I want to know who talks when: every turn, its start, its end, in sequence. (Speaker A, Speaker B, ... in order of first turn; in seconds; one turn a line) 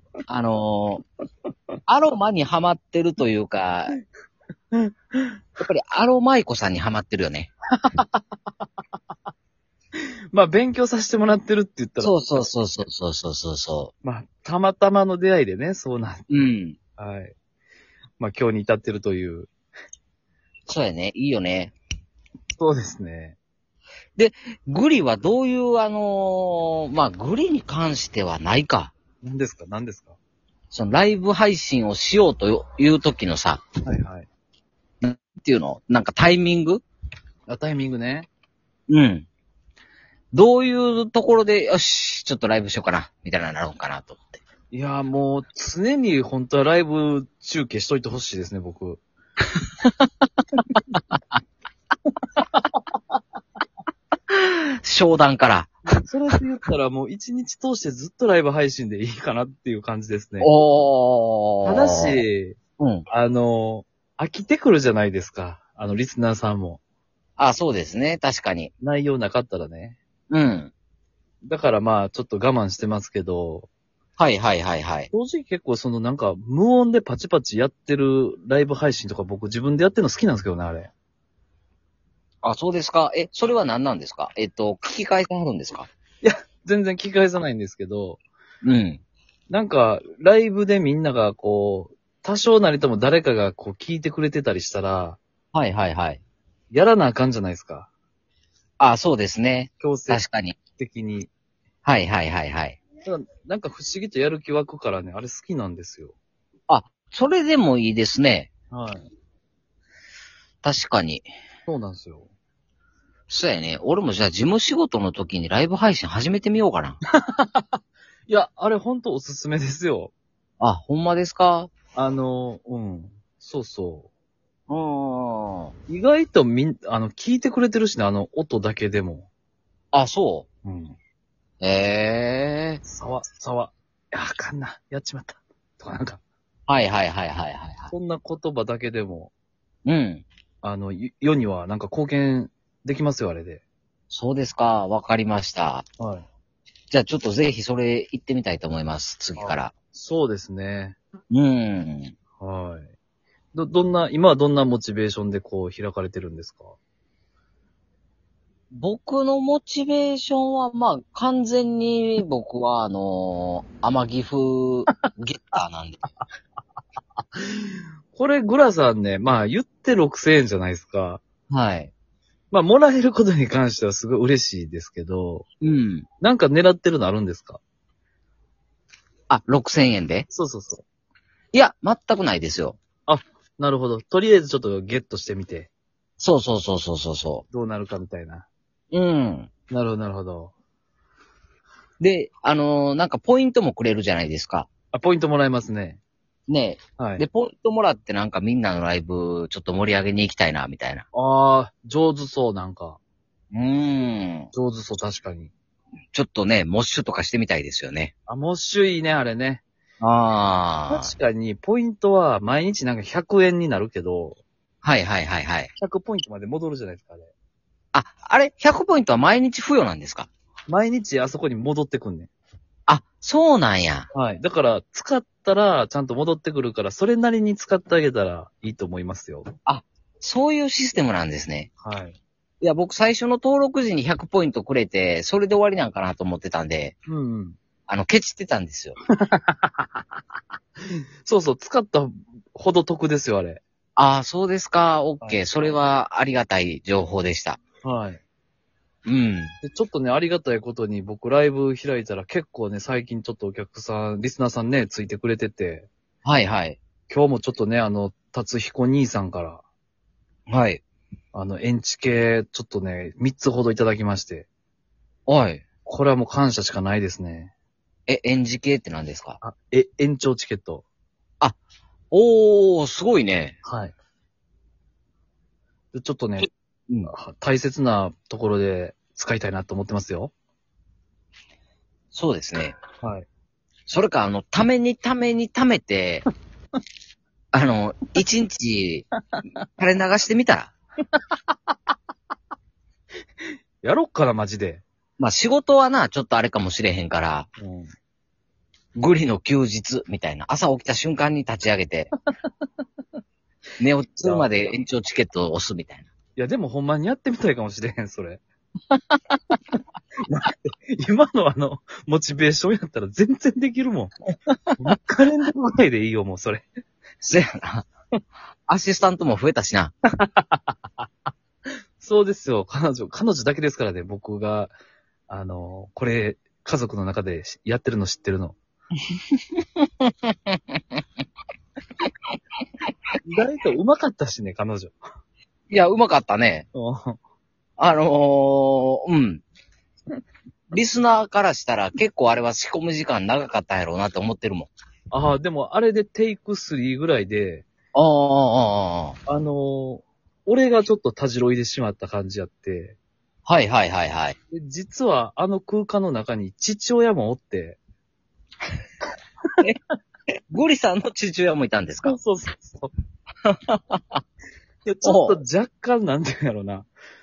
Speaker A: 0.3-1.0
Speaker A: 1.9-4.0
Speaker B: 4.7-5.3
Speaker A: 5.6-7.5
Speaker B: 7.8-8.2
Speaker B: 10.0-12.5
Speaker A: 12.0-13.9
Speaker B: 14.0-16.2
Speaker A: 16.3-16.8
Speaker B: 17.0-17.3
Speaker B: 18.2-19.5
Speaker A: 20.7-21.7
Speaker B: 22.6-23.4
Speaker A: 24.1-28.9
Speaker B: 29.2-30.2
Speaker A: 30.7-33.6
Speaker B: 33.8-34.3
Speaker A: 35.0-36.8
Speaker B: 37.5-38.3
Speaker A: 38.9-39.2
Speaker A: 40.3-44.4
Speaker B: 44.7-49.0
Speaker B: 52.5-52.8
Speaker A: 54.3-55.8
Speaker B: 56.0-60.5
Speaker A: 60.4-62.2
Speaker B: 61.6-62.6
Speaker A: 62.8-63.0
Speaker B: 63.1-66.8
Speaker A: 67.4-68.7
Speaker B: 68.8-70.0
Speaker A: 70.3-70.7
Speaker B: 71.4-73.7
Speaker A: 74.2-75.1
Speaker B: 75.1-80.9
Speaker A: 82.4-85.9
Speaker B: 86.2-88.2
Speaker A: 88.6-89.0
Speaker B: 89.5-95.2
Speaker A: 95.5-96.2
Speaker B: 96.7-97.9
Speaker A: 98.8-100.6
Speaker B: 99.8-100.2
Speaker B: 100.8-101.3
Speaker A: 101.8-102.8
Speaker B: 103.0-106.1
Speaker A: 106.7-108.5
Speaker B: 108.7-109.0
Speaker A: 110.6-111.2
Speaker B: 111.7-112.3
Speaker A: 113.3-117.0
Speaker B: 117.2-120.1
Speaker A: 120.6-121.7
Speaker B: 122.0-124.1
Speaker A: 124.7-125.7
Speaker B: 125.9-129.3
Speaker A: 129.9-130.5
Speaker B: 130.6-131.0
Speaker A: 131.6-132.8
Speaker B: 132.8-136.2
Speaker A: 136.7-137.9
Speaker B: 137.9-139.3
Speaker A: 139.8-140.2
Speaker B: 140.6-143.6
Speaker A: 144.1-145.8
Speaker B: 146.0-146.2
Speaker A: 146.9-149.7
Speaker B: 149.4-151.0
Speaker A: 151.3-152.1
Speaker B: 152.4-152.9
Speaker B: 153.5-156.8
Speaker A: 158.7-166.0
Speaker B: 167.3-171.2
Speaker A: 171.5-171.9
Speaker B: 172.5-175.4
Speaker A: 175.6-176.1
Speaker B: 176.2-177.6
Speaker A: 179.3-180.3
Speaker B: 180.3-180.8
Speaker A: 181.5-182.8
Speaker B: 183.1-185.7
Speaker A: 186.2-187.4
Speaker B: 187.5-188.4
Speaker A: 188.9-189.5
Speaker B: 189.7-190.5
Speaker A: 192.0-194.7
Speaker B: 194.9-196.0
Speaker A: 196.5-201.1
Speaker B: 197.0-197.2
Speaker B: 201.1-203.0
Speaker A: 203.5-204.5
Speaker B: 204.5-205.5
Speaker A: 206.1-208.1
Speaker B: 208.3-209.6
Speaker A: 210.0-211.1
Speaker B: 210.9-214.4
Speaker A: 214.8-215.7
Speaker B: 215.8-217.3
Speaker A: 217.9-220.3
Speaker B: 220.7-222.3
Speaker A: 222.9-224.1
Speaker B: 224.1-229.5
Speaker A: 229.7-231.7
Speaker B: 231.8-232.2
Speaker A: 232.6-236.9
Speaker B: 237.1-237.6
Speaker A: 237.9-238.9
Speaker B: 239.1-240.0
Speaker B: 240.8-243.6
Speaker A: 243.9-247.6
Speaker B: 247.8-248.2
Speaker A: 249.1-249.5
Speaker B: 249.6-255.9
Speaker A: 256.2-256.8
Speaker B: 257.1-259.6
Speaker A: 260.5-260.8
Speaker B: 261.3-264.5
Speaker A: 265.3-265.6
Speaker B: 265.8-267.5
Speaker A: 268.1-269.4
Speaker B: 269.4-270.8
Speaker A: 272.1-273.6
Speaker B: 273.6-273.9
Speaker B: 275.9-276.5
Speaker B: 277.1-280.3
Speaker A: 282.1-282.8
Speaker B: 283.0-283.2
Speaker A: 283.9-286.2
Speaker A: 287.5-289.1
Speaker A: 289.8-290.7
Speaker B: 293.8-294.8
Speaker A: 295.2-297.5
Speaker B: 297.6-297.9
Speaker A: 298.9-302.1
Speaker A: 303.8-306.1
Speaker B: 304.2-304.7
Speaker B: 306.4-308.4
Speaker A: 308.9-309.2
Speaker B: 310.3-314.1
Speaker B: 314.8-316.6
Speaker A: 317.2-317.8
Speaker A: 318.7-319.9
Speaker B: 320.2-320.8
Speaker B: 322.0-324.7
Speaker B: 325.3-328.6
Speaker A: 329.6-330.8
Speaker B: 333.2-335.0
Speaker A: 335.7-336.6
Speaker B: 336.7-337.2
Speaker A: 337.8-339.4
Speaker A: 340.7-344.7
Speaker B: 345.1-347.6
Speaker A: 347.9-349.1
Speaker B: 349.3-353.0
Speaker A: 353.4-354.4
Speaker B: 354.5-357.8
Speaker A: 360.5-362.2
Speaker B: 362.0-362.9
Speaker A: 363.4-364.2
Speaker B: 364.8-366.9
Speaker A: 365.0-365.4